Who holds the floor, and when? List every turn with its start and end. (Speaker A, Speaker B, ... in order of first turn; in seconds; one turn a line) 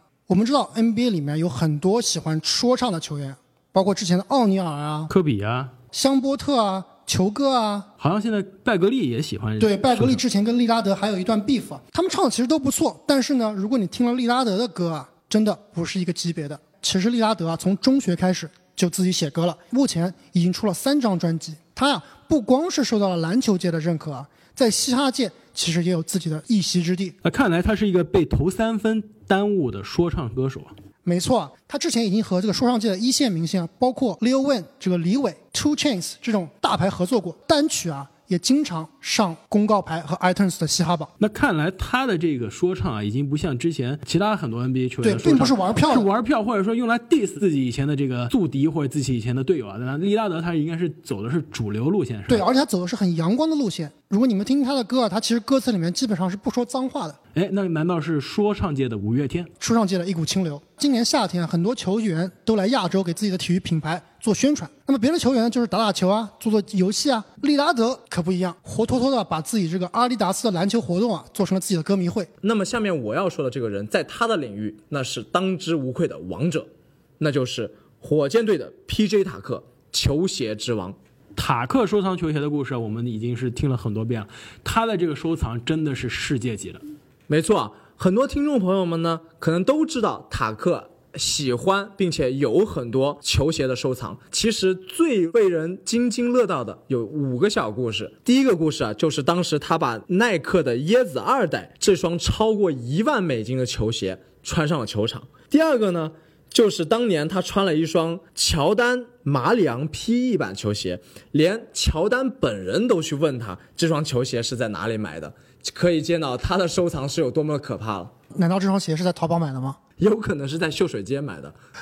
Speaker A: 0.3-5.1
Speaker B: 5.1-5.7
Speaker A: 5.9-7.9
Speaker B: 8.0-10.2
Speaker A: 9.6-27.2
Speaker B: 27.2-30.7
Speaker A: 31.0-41.1
Speaker B: 41.2-52.5
Speaker A: 45.0-46.1
Speaker A: 52.3-57.2
Speaker B: 57.3-59.5
Speaker A: 59.6-72.3
Speaker C: 72.4-76.7
Speaker C: 77.2-81.0
Speaker B: 81.4-86.8
Speaker C: 87.3-118.1
Speaker A: 118.3-119.8
Speaker C: 120.0-121.6